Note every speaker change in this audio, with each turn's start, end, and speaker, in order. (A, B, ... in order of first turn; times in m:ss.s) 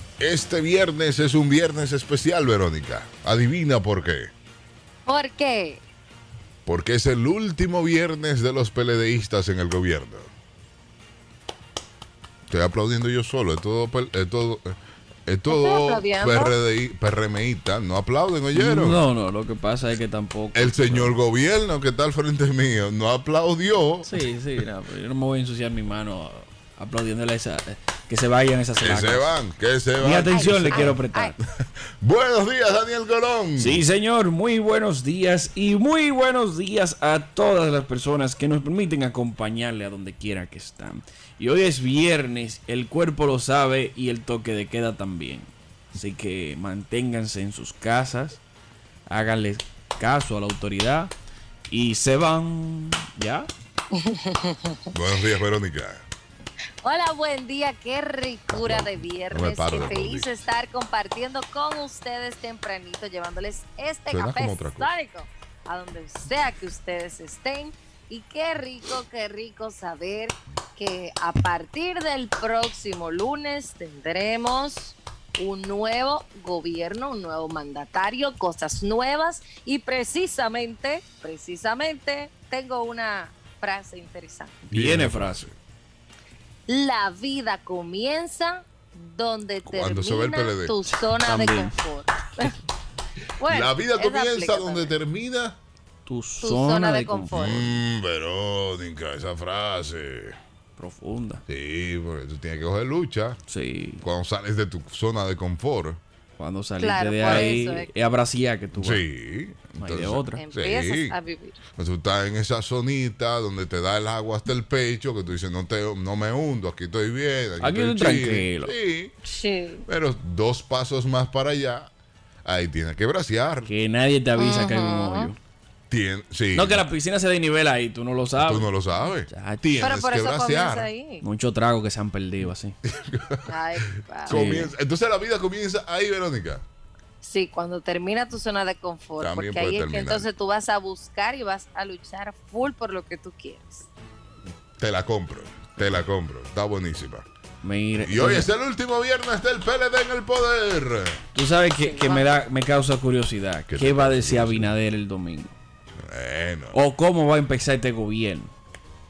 0:00.2-0:04.3 A
0:05.1-0:05.8 B
0:06.7-0:10.3 A
0:12.5-0:14.8 A
0:15.3-0:19.0 A
0:15.5-0:16.5 B
0:18.5-0:21.2 C
0:20.6-0:24.2 A
0:24.0-0:29.3 C
0:28.8-0:31.0 A
0:30.0-0:31.4 C
0:30.3-0:31.3 B
0:31.6-0:33.8 A
0:33.6-0:48.4 C
0:49.1-0:51.1 C
0:51.7-0:53.5 C
0:53.9-0:54.9 B
0:54.9-0:56.0 A
0:56.8-1:24.6 B
0:58.5-1:00.4 A
1:04.1-1:04.9 A
1:24.6-1:25.5 C
1:24.7-1:25.5 A
1:26.7-1:32.6 B
1:29.6-1:30.8 A
1:30.9-1:31.8 C
1:33.4-1:35.0 B
1:33.5-1:35.6 A
1:36.1-1:37.7 C
1:36.4-1:37.7 B
1:37.3-1:40.4 A
1:40.8-1:41.4 C
1:41.5-1:43.4 A
1:43.5-1:44.0 C
1:44.0-1:46.0 A
1:46.4-1:49.1 C
1:46.8-1:47.9 B
1:47.3-1:47.6 A
1:48.7-1:51.2 A
1:49.8-1:50.4 C
1:50.4-1:51.6 B
1:51.8-1:59.2 A
1:57.6-1:58.8 C
1:59.2-1:59.8 B
1:59.9-2:01.9 A
2:02.4-2:03.7 A
2:03.7-2:05.4 C
2:04.4-2:05.3 B
2:05.9-2:06.9 A
2:06.5-2:08.7 C
2:08.4-2:10.9 A
2:09.3-2:09.9 C
2:09.8-2:11.2 B
2:11.2-2:12.8 C
2:12.8-2:16.6 A
2:13.5-2:14.7 B
2:14.3-2:14.7 C
2:17.2-2:23.9 B
2:19.2-2:20.3 A
2:24.8-2:27.3 A
2:27.6-2:28.5 C
2:28.0-2:31.2 A
2:31.4-2:35.5 C
2:31.8-2:32.4 B
2:33.7-2:34.7 A
2:36.0-2:36.8 A
2:36.7-2:38.5 C